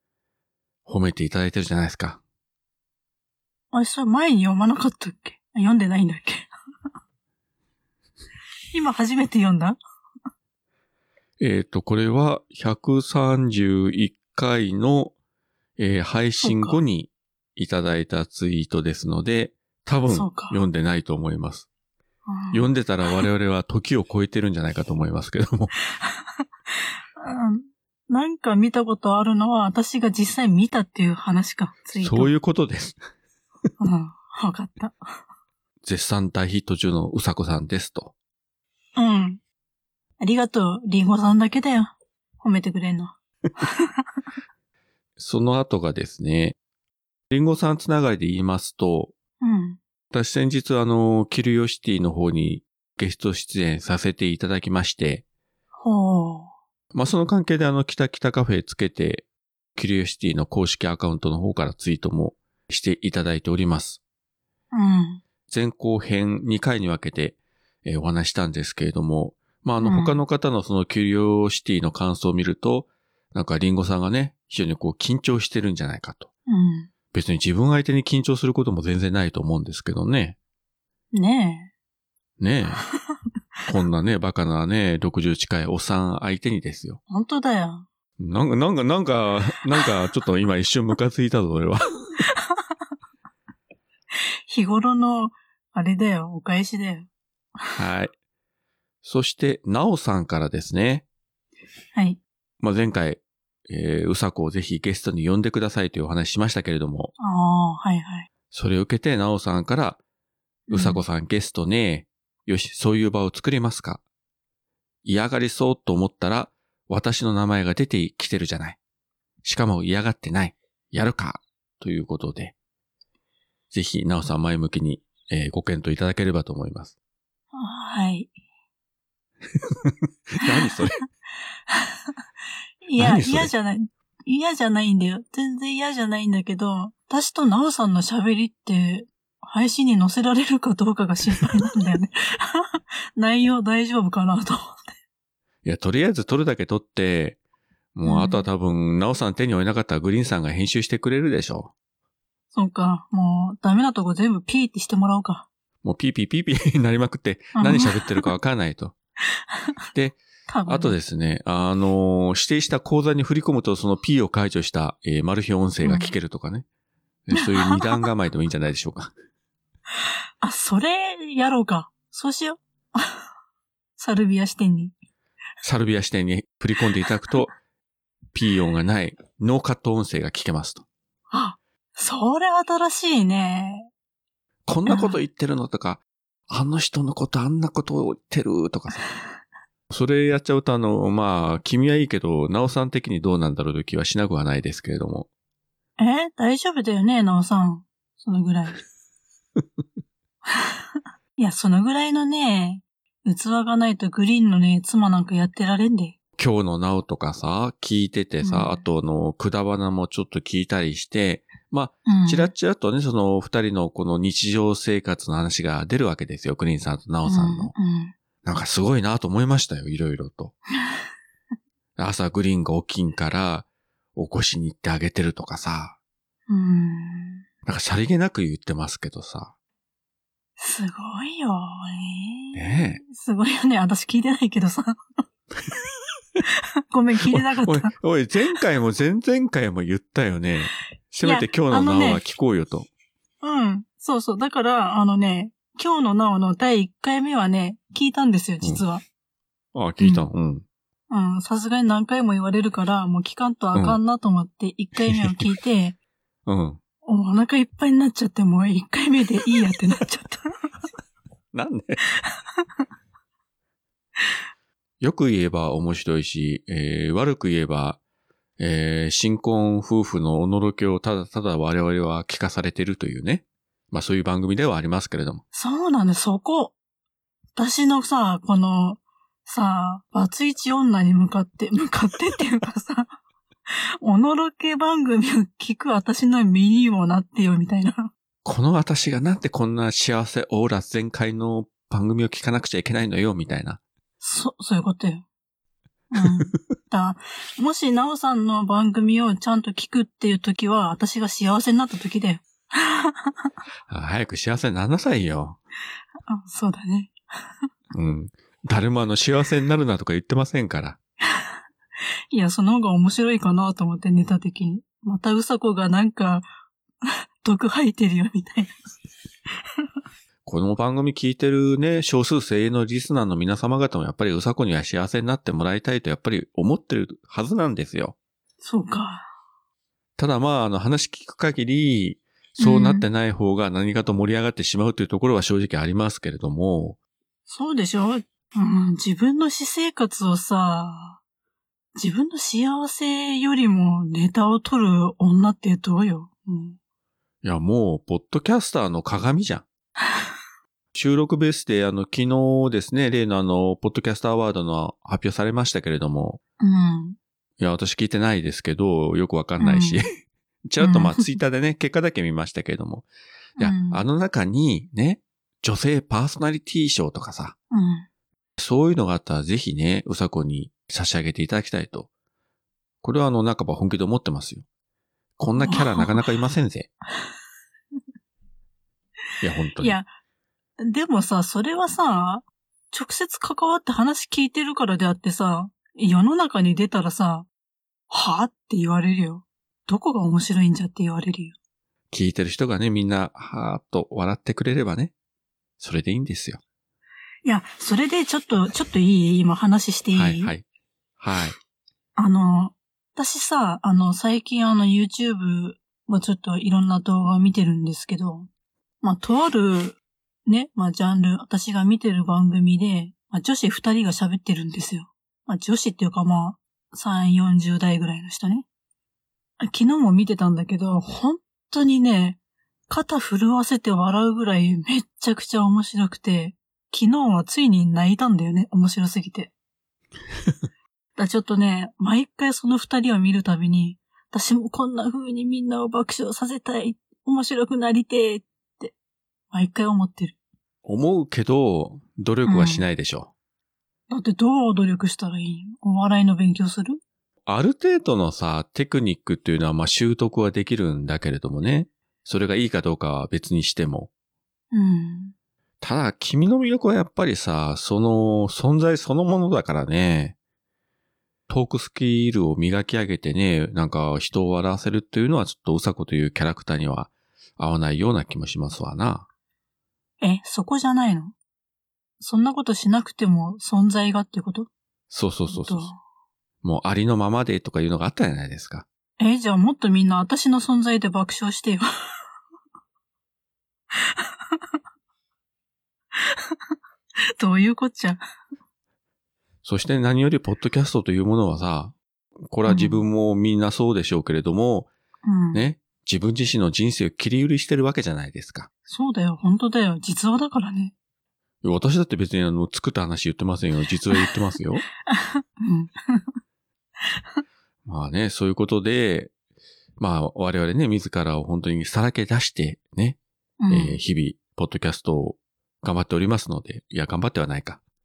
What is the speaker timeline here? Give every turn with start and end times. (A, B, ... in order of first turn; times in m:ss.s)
0:00.8-0:02.2 A
0:03.7-0:06.5 B
0:08.7-0:09.8 B
0:11.4-0:15.1 A
0:15.8-0:21.7 A
0:16.4-0:16.8 B
0:20.1-0:20.6 B
0:22.3-0:22.7 B
0:22.5-0:25.7 A
0:27.2-0:32.3 B
0:32.0-0:33.0 A
0:33.8-0:35.0 B
0:35.8-0:38.1 A
0:39.0-0:39.4 B
0:40.2-0:44.0 B
0:45.2-0:46.6 A
0:47.3-0:49.1 A
0:49.4-0:49.8 B
0:50.1-0:55.2 A
0:55.8-0:56.5 B
0:56.9-1:04.0 A
1:04.7-1:05.2 B
1:05.5-1:16.3 A
1:09.8-1:10.2 B
1:16.5-1:16.9 B
1:17.1-1:20.4 A
1:21.1-1:21.7 B
1:22.4-1:22.8 A
1:23.7-1:27.0 A
1:27.1-1:27.8 B
1:28.2-1:32.2 A
1:34.5-1:37.1 B
1:37.8-1:38.1 A
1:39.0-1:41.0 A
1:41.9-1:42.2 B
1:42.6-1:47.1 A
1:47.2-1:48.3 B
1:48.5-1:50.0 A
1:50.7-1:51.0 B
1:50.7-1:54.0 A
1:55.0-1:58.8 A
1:59.4-2:02.5 A
2:03.7-2:06.9 A
2:07.5-2:08.3 B
2:09.8-2:11.0 A
2:11.7-2:12.0 B
2:12.8-2:24.9 B
2:13.0-2:13.5 A
2:25.6-2:27.4 A
2:27.9-2:31.7 A
2:28.0-2:28.4 B
2:32.5-2:35.5 B
2:35.8-2:39.0 A
2:37.6-2:38.3 B
2:39.9-2:46.6 A
2:40.5-2:41.0 B
2:45.8-2:46.1 B
2:47.3-2:49.1 A
2:47.3-2:48.0 B
2:50.4-2:53.2 B
2:54.0-2:54.9 B
2:55.6-2:57.5 A
2:58.3-3:00.8 A
3:01.3-3:03.9 B
3:04.7-3:09.0 A
3:04.8-3:05.2 B
3:09.9-3:15.3 A
3:16.0-3:18.8 B
3:21.4-3:26.2 B
3:26.4-3:37.7 A
3:28.4-3:28.8 B
3:32.0-3:32.5 B
3:37.2-3:38.1 B
3:38.4-3:40.5 A
3:42.0-3:46.0 A
3:46.5-3:47.4 B
3:47.6-3:49.5 A
3:50.6-3:55.0 B
3:52.5-3:53.0 A
3:56.9-3:57.9 B
3:57.3-4:02.9 A
4:01.2-4:02.2 B
4:03.4-4:09.0 B
4:09.7-4:10.6 A
4:10.0-4:10.2 B
4:11.1-4:16.0 B
4:13.7-4:14.0 A
4:15.0-4:15.4 A
4:16.4-4:16.8 A
4:17.0-4:20.4 B
4:21.5-4:22.0 A
4:25.0-4:28.0 A
4:28.6-4:35.4 A
4:35.5-4:36.8 B
4:37.6-4:43.1 B
4:44.0-4:48.1 B
4:48.4-4:53.8 A
4:54.2-4:55.2 B
4:56.1-5:03.5 B
5:03.9-5:05.6 A
5:06.3-5:07.2 B
5:07.9-5:11.0 A
5:12.3-5:16.5 B
5:17.0-5:18.7 B
5:20.4-5:28.1 A
5:28.6-5:29.2 B
5:30.2-5:37.0 A
5:32.6-5:33.0 B
5:37.5-5:41.2 B
5:42.0-5:46.8 B
5:47.4-5:49.6 A
5:50.9-5:56.4 A
5:56.6-5:57.2 B
5:57.6-6:00.1 A
5:59.6-6:00.0 B
6:00.6-6:03.1 A
6:00.8-6:01.3 B
6:03.6-6:07.6 A
6:03.6-6:04.0 B
6:07.7-6:08.1 B
6:08.6-6:12.1 A
6:13.0-6:14.6 A
6:15.4-6:16.9 A
6:15.6-6:16.2 B
6:19.4-6:20.0 A
6:19.8-6:20.1 B
6:20.8-6:27.5 B
6:28.1-6:31.5 B
6:32.1-6:35.1 A
6:35.8-6:36.6 A
6:37.4-6:40.5 B
6:40.1-6:40.6 A
6:41.2-6:41.6 A
6:42.2-6:48.5 B
6:49.0-6:58.6 B
6:59.6-7:09.5 B
7:11.2-7:18.9 B
7:19.5-7:20.4 B
7:20.8-7:23.3 A
7:22.4-7:22.9 B
7:24.1-7:27.0 B
7:27.5-7:34.1 A
7:34.7-7:35.3 B
7:35.8-7:40.4 A
7:41.5-7:49.3 A
7:50.2-7:51.3 B
7:52.2-7:54.7 B
7:55.1-7:55.9 A
7:55.5-7:56.0 B
7:56.6-7:58.8 A
7:59.2-8:01.9 B
8:06.2-8:06.5 B
8:07.4-8:08.2 B
8:09.6-8:14.9 A
8:12.6-8:13.0 B
8:15.2-8:15.6 B
8:15.5-8:18.7 A
8:18.9-8:20.9 B
8:21.6-8:24.8 A
8:25.1-8:26.2 B
8:27.8-8:29.3 A
8:30.0-8:33.2 A
8:33.6-8:34.0 B
8:33.7-8:37.8 A